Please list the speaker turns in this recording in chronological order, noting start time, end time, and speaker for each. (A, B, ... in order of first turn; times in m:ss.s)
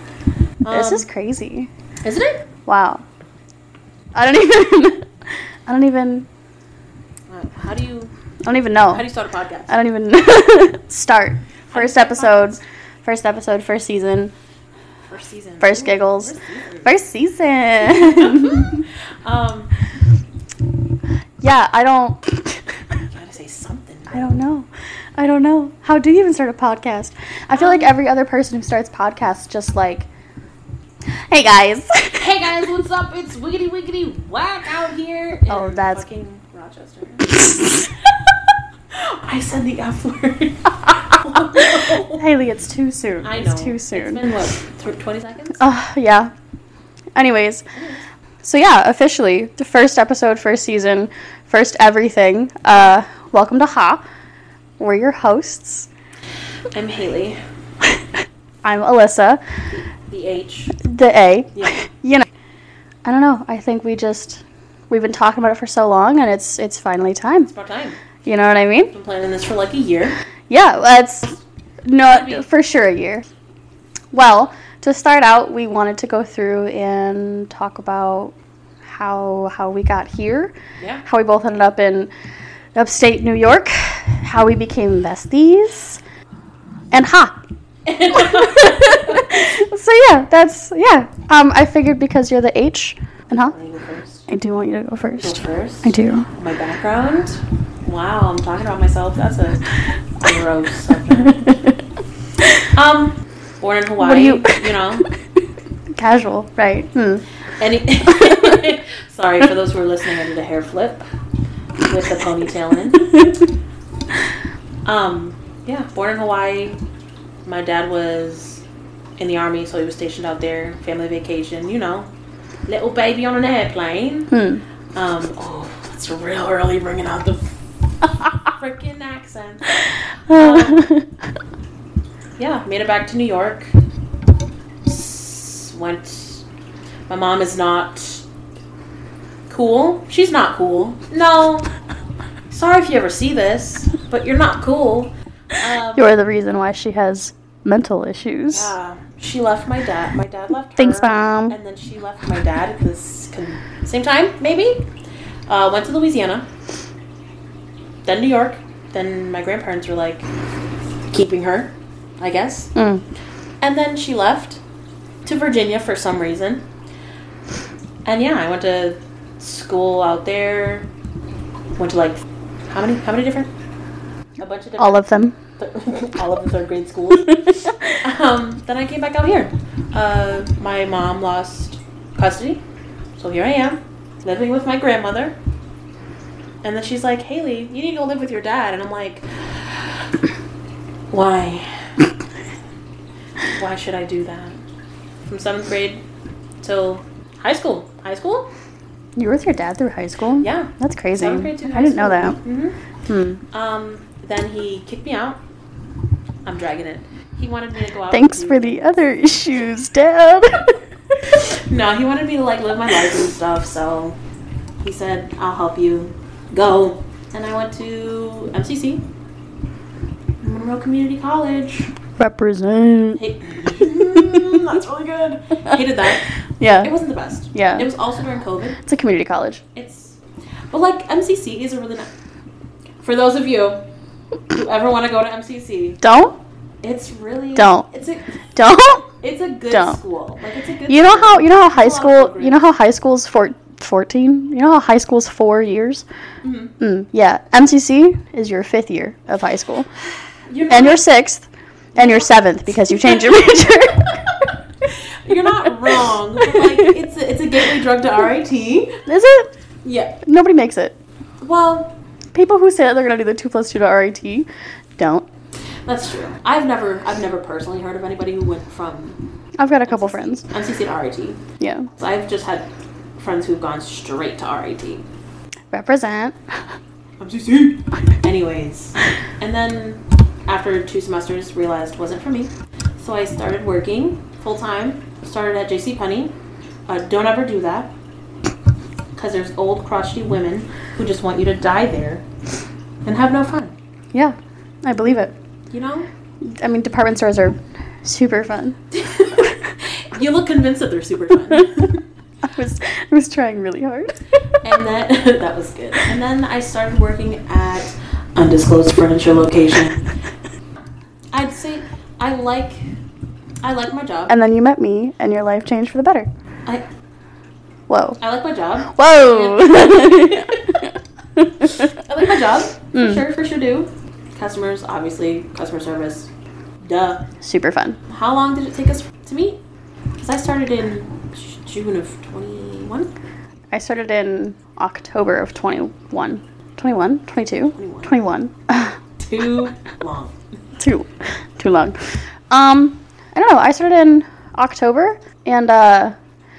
0:00.6-0:01.1 A
0:00.7-0:01.7 B
0:02.0-0:02.4 A
0:02.7-0:03.0 B
0:04.1-0:05.1 B
0:05.7-0:06.3 B
0:07.3-0:08.1 A
0:08.4-0:09.0 B
0:08.9-0:09.7 A
0:09.7-0:14.3 B
0:11.7-0:12.6 A
0:15.1-0:16.9 A
0:15.6-0:18.8 B
0:17.8-0:19.7 A
0:21.4-0:22.8 B
0:23.1-0:24.4 A
0:24.1-0:30.1 B
0:27.5-0:27.9 A
0:31.3-0:32.3 B
0:32.2-0:37.6 A
0:35.5-0:36.0 B
0:38.9-0:42.3 A
0:41.6-0:44.2 B
0:43.2-0:45.6 A
0:45.6-0:46.3 B
0:47.2-0:47.7 B
0:47.8-0:48.0 A
0:48.4-0:54.0 B
0:54.8-0:55.9 B
0:56.7-0:57.4 A
0:58.6-0:59.4 B
0:59.7-1:00.8 A
1:00.8-1:02.3 B
1:03.0-1:07.5 B
1:07.5-1:08.0 A
1:08.2-1:08.9 B
1:08.9-1:10.2 A
1:10.5-1:13.3 B
1:12.1-1:12.4 A
1:14.1-1:22.1 B
1:20.8-1:21.0 A
1:22.8-1:26.0 B
1:26.9-1:27.4 B
1:27.9-1:29.3 A
1:28.1-1:33.5 B
1:33.4-1:34.3 A
1:34.3-1:36.3 B
1:35.1-1:41.7 A
1:42.6-1:45.1 A
1:44.0-1:44.6 B
1:45.9-1:47.2 B
1:47.6-1:51.1 A
1:48.2-1:48.6 B
1:51.8-1:53.4 A
1:54.8-1:56.8 A
1:57.4-1:58.6 A
1:59.2-2:02.1 A
2:02.7-2:04.4 A
2:04.3-2:04.6 B
2:05.0-2:07.6 A
2:08.4-2:09.8 A
2:10.3-2:11.1 B
2:10.3-2:10.9 A
2:12.4-2:13.7 A
2:14.8-2:16.4 A
2:17.1-2:18.2 A
2:19.5-2:21.7 A
2:22.5-2:26.1 A
2:26.0-2:28.8 B
2:28.5-2:34.9 A
2:30.8-2:31.6 B
2:35.5-2:36.5 A
2:38.0-2:40.3 A
2:41.1-2:42.7 A
2:42.8-2:43.0 B
2:43.6-2:44.6 A
2:45.2-2:46.6 A
2:48.0-2:50.9 A
2:51.8-2:53.5 A
2:54.4-2:55.1 A
2:54.8-2:55.4 B
2:55.6-3:02.6 A
2:57.4-2:57.8 B
3:03.2-3:05.4 A
3:06.6-3:09.7 A
3:11.1-3:11.9 A
3:13.6-3:14.6 A
3:15.3-3:16.0 A
3:16.6-3:18.5 A
3:19.2-3:22.4 B
3:20.4-3:22.8 A
3:23.1-3:23.4 B
3:23.5-3:25.4 A
3:26.5-3:29.0 A
3:28.1-3:30.8 B
3:31.4-3:34.2 A
3:34.8-3:39.0 A
3:40.4-3:41.9 A
3:42.2-3:44.6 B
3:43.2-3:48.8 A
3:46.6-3:46.9 B
3:47.5-3:47.9 B
3:48.8-3:49.6 B
3:49.8-3:50.2 A
3:50.7-3:52.1 A
3:53.0-3:53.8 A
3:54.5-3:56.0 A
3:56.0-3:56.4 B
3:56.8-3:58.4 A
3:57.6-3:57.9 B
3:58.6-3:59.1 B
3:59.2-4:02.6 A
3:59.7-4:00.0 B
4:00.9-4:06.0 B
4:06.4-4:06.7 A
4:06.8-4:09.9 B
4:10.5-4:11.0 A
4:10.7-4:14.5 B
4:12.0-4:13.4 A
4:14.3-4:19.0 A
4:15.6-4:16.9 B
4:19.1-4:19.5 B
4:19.8-4:20.2 A
4:20.2-4:21.0 B
4:21.4-4:22.0 A
4:22.3-4:25.3 B
4:25.9-4:29.2 A
4:29.6-4:30.4 B
4:29.9-4:31.4 A
4:31.6-4:31.9 B
4:32.0-4:32.7 A
4:33.2-4:35.1 A
4:35.7-4:36.4 B
4:37.2-4:46.4 A
4:46.9-4:47.9 A
4:49.2-4:52.2 A
4:53.0-4:53.7 A
4:54.1-4:55.4 B
4:55.7-4:56.1 A
4:56.4-4:58.8 B
4:58.9-5:02.0 A
5:02.4-5:04.2 B
5:04.6-5:10.0 A
5:11.3-5:12.8 A
5:13.6-5:14.4 A
5:14.3-5:16.3 B
5:17.9-5:18.2 B
5:18.2-5:20.7 A
5:18.9-5:21.7 B
5:21.8-5:26.3 A
5:22.9-5:23.2 B
5:26.8-5:27.2 A
5:27.4-5:28.0 B
5:28.1-5:29.6 A
5:30.2-5:33.1 A
5:33.7-5:39.0 B
5:37.8-5:38.1 A
5:39.2-5:40.4 A
5:40.8-5:46.2 B